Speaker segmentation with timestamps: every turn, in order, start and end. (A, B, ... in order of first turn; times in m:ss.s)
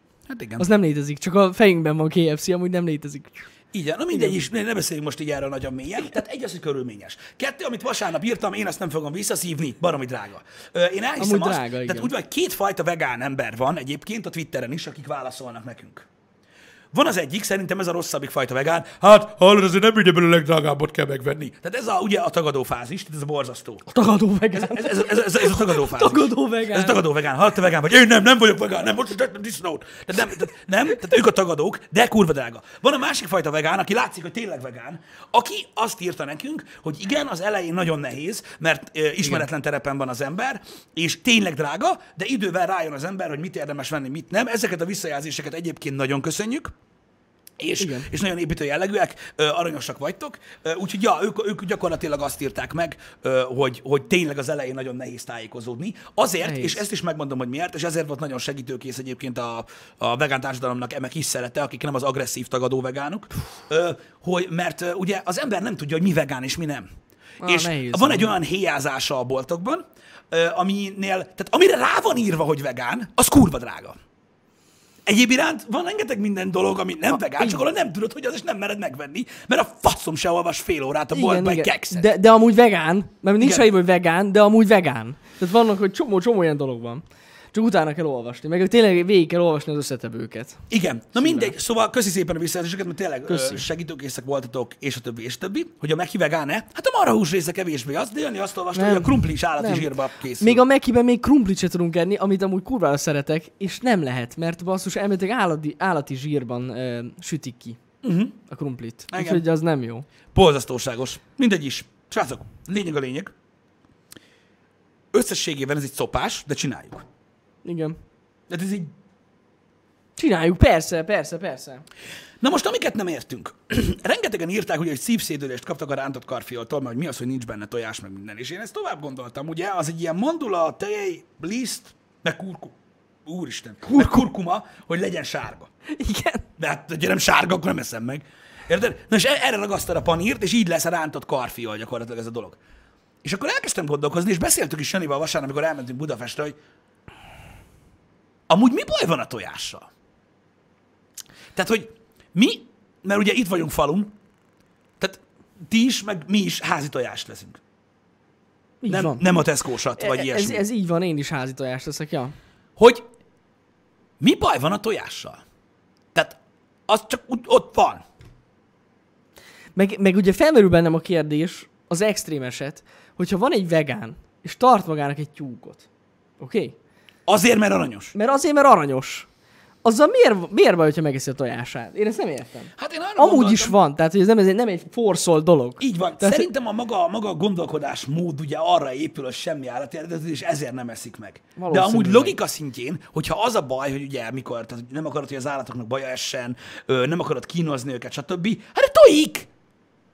0:00.3-0:00.7 A
0:00.6-0:03.4 B
0:03.7-0:16.1 A
0:11.2-0:12.1 B
0:16.9-0:23.8 A
0:23.9-0:27.0 B
0:24.5-0:46.7 A
0:47.6-1:06.9 A
0:47.8-0:48.1 B
0:56.4-0:56.8 B
1:07.4-1:08.3 B
1:07.4-1:14.0 A
1:15.0-1:22.1 A
1:17.3-1:17.6 B
1:21.1-1:30.6 B
1:23.4-1:23.7 A
1:30.7-1:40.6 A
1:31.2-1:31.5 B
1:33.3-1:33.6 B
1:38.7-1:47.8 B
1:48.0-1:48.4 A
1:48.5-1:50.1 B
1:49.1-1:49.4 A
1:50.3-1:53.3 A
1:55.1-1:57.0 A
1:57.6-1:58.0 B
1:58.5-1:58.9 A
2:00.2-2:01.8 B
2:02.4-2:15.7 A
2:15.9-2:16.4 B
2:16.6-2:22.6 A
2:23.2-2:26.6 A
2:28.5-2:29.9 A
2:31.5-2:34.1 A
2:35.0-2:37.6 A
2:38.8-2:39.3 B
2:38.9-2:40.6 A
2:40.0-2:42.4 B
2:42.8-2:43.0 A
2:44.2-2:45.4 A
2:46.1-2:48.0 A
2:49.8-2:55.9 B
2:56.4-2:56.8 B
2:57.3-2:58.1 A
2:58.1-2:59.3 B
2:59.8-3:06.5 B
3:02.8-3:03.8 A
3:05.8-3:19.5 A
3:11.6-3:12.4 B